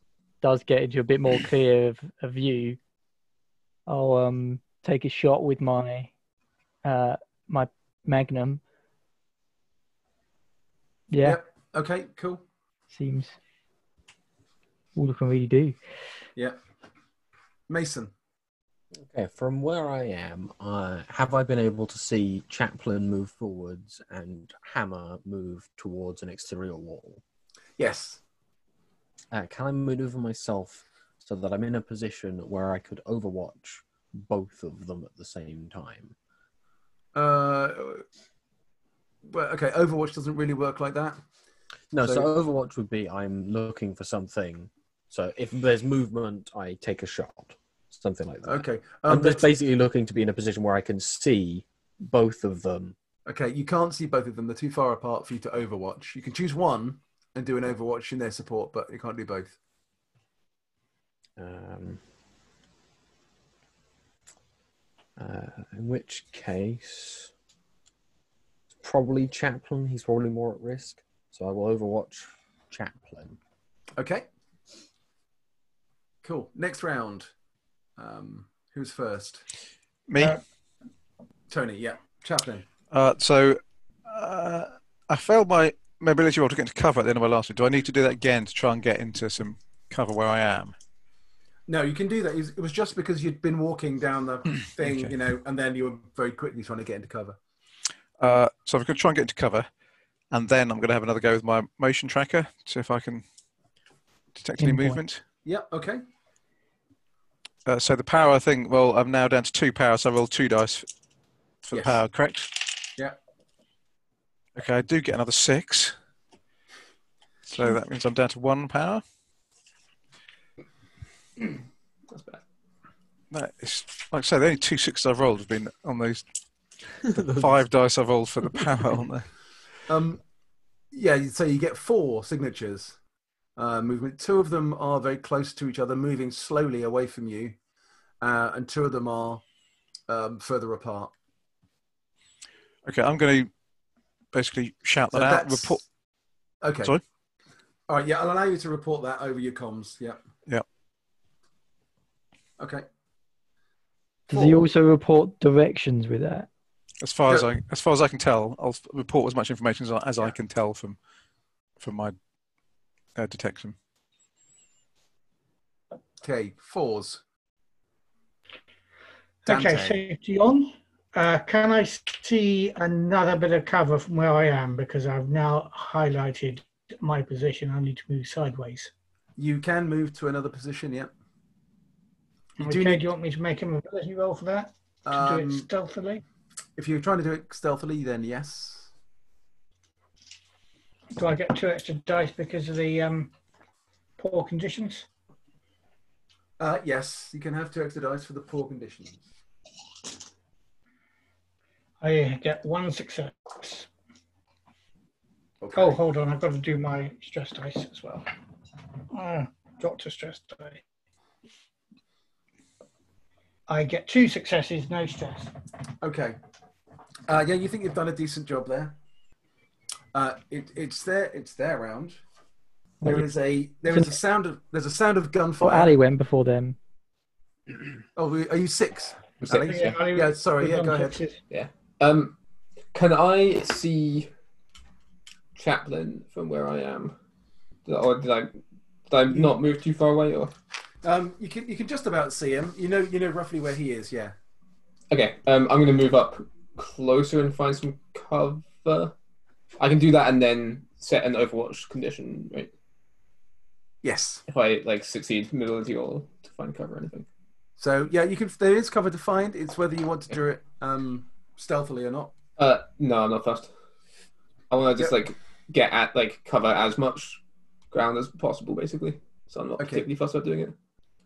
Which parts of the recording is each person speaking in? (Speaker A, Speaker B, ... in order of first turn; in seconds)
Speaker A: 0.4-2.8, 3.9-6.1, 6.8-8.6, 11.1-11.4, 12.9-13.3, 14.9-15.8, 104.6-105.0, 154.3-156.5, 223.9-224.1, 225.6-226.8
Speaker B: 11.2-12.4, 17.7-18.1, 27.8-28.2, 37.1-38.0, 39.2-41.2, 42.0-42.3, 48.4-49.5, 53.2-59.5, 74.0-74.2, 76.2-77.3, 78.0-79.4, 81.5-82.7, 91.7-97.4, 105.4-106.0, 111.7-112.0, 129.9-130.2, 130.9-133.0, 133.6-137.5, 138.2-139.4, 140.1-141.1, 145.1-145.8, 146.6-146.9, 147.9-150.2, 152.6-152.8, 154.3-154.7, 166.2-167.2, 169.5-170.0, 179.4-181.1, 182.6-183.0, 185.1-185.7, 186.8-188.9, 196.6-199.2, 205.6-206.0, 216.0-216.4, 217.3-218.9, 220.1-222.2, 223.0-225.9, 228.2-231.2, 241.0-244.3, 254.0-254.4, 257.8-262.3, 269.8-270.0
Speaker C: 18.9-27.2, 29.3-36.1, 41.9-52.9, 61.4-62.0, 65.2-67.3, 68.8-73.4, 127.1-127.5
Speaker D: 80.1-80.4, 82.9-90.7, 94.8-95.1, 98.2-99.7, 100.3-103.2, 104.3-105.2, 107.7-110.9, 111.6-112.8, 114.5-115.9, 117.5-119.0, 123.3-126.2, 127.0-129.3, 142.8-143.5, 144.3-145.8, 157.0-161.0, 161.8-162.1, 163.2-163.8
Speaker E: 122.1-122.4, 229.4-229.9, 231.5-232.3, 232.9-234.3, 235.5-237.1, 237.8-238.6, 239.1-240.5, 245.1-249.1, 249.8-252.7, 254.5-257.3, 262.6-263.7, 264.7-267.4, 267.9-270.7
Speaker F: 169.4-178.9, 182.6-186.2, 191.2-193.3, 194.2-195.1, 202.0-203.9, 205.7-208.3, 209.1-210.8, 213.7-215.5, 229.5-231.4